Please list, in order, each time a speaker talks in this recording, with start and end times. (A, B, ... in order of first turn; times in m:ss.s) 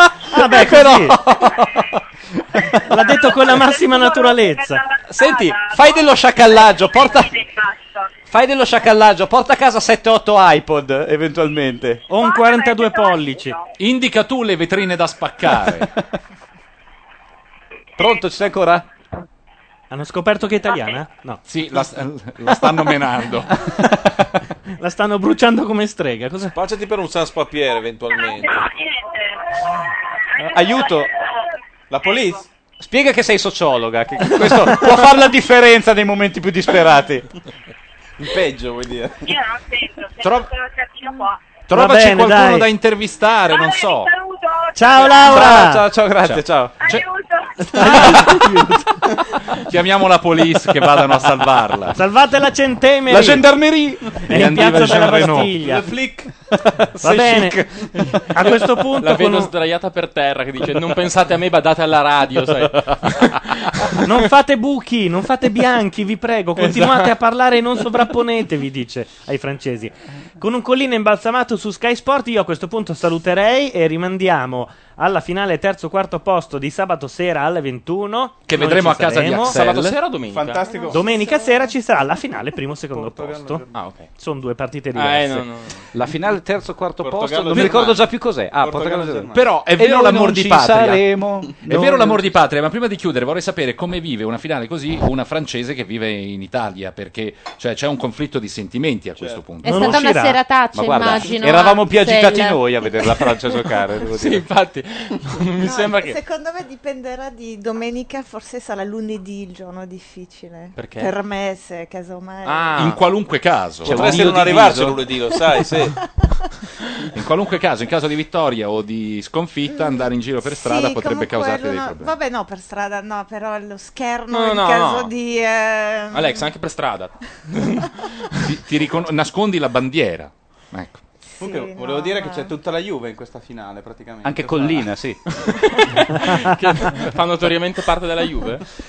0:00.3-0:01.2 A
0:00.4-0:01.9 B
0:02.8-0:04.8 A
0:03.0-0:08.1 C
0:05.1-0:07.4 B
0:08.3-0:12.0 B
0:12.1-0:13.6 A
0:12.2-0:13.7 C
0:13.8-0:15.9 D
0:18.0-0:18.9 B
0:19.9-0:21.4 A
0:21.5-0:23.6 D
0:24.8-0:26.6 A
0:26.6-0:28.6 E
0:28.1-0:32.4 C
0:30.4-0:31.1 B
0:31.9-0:32.4 F
0:32.8-0:37.3 B
0:38.2-0:39.3 F
0:39.2-0:41.4 C
0:40.2-0:40.5 D
0:41.7-0:44.1 D
0:41.7-0:42.7 A
0:43.5-0:45.4 C
0:44.8-0:45.8 A
0:45.1-0:46.7 B
0:46.2-0:47.0 D
0:46.8-0:47.9 C
0:47.6-0:48.8 A
0:47.8-0:48.7 D
0:49.6-0:52.0 D
0:51.9-0:53.5 A
0:53.1-0:55.5 B
0:54.3-0:55.9 A
0:55.6-0:56.3 F
0:56.5-0:58.1 B
0:57.0-0:57.6 A
0:58.3-0:59.5 A
0:59.0-1:03.9 G
1:04.0-1:19.6 A
1:06.6-1:07.2 G
1:18.5-1:20.0 D
1:19.4-1:20.8 G
1:20.3-1:21.1 F
1:20.6-1:21.7 H
1:20.9-1:23.6 A
1:22.9-1:23.8 F
1:23.7-1:24.1 G
1:24.2-1:25.5 A
1:25.0-1:25.9 G
1:25.9-1:32.3 B
1:27.0-1:29.5 F
1:29.3-1:31.1 D
1:31.6-1:40.0 D
1:39.2-1:39.4 F
1:39.6-1:42.6 I
1:39.6-1:40.4 A
1:40.7-1:44.5 B
1:44.1-1:46.2 G
1:45.6-1:53.0 H
1:50.8-1:51.1 G
1:52.4-1:53.0 G
1:52.8-1:54.4 D
1:53.8-1:55.0 B
1:53.8-1:56.0 E
1:53.9-1:54.3 G
1:55.5-1:56.1 H
1:57.2-2:02.1 D
1:59.7-2:06.5 H
2:04.3-2:05.1 G
2:06.1-2:08.5 G
2:08.4-2:11.0 D
2:11.3-2:12.6 H
2:11.4-2:14.9 F
2:14.2-2:15.2 B
2:15.8-2:18.6 G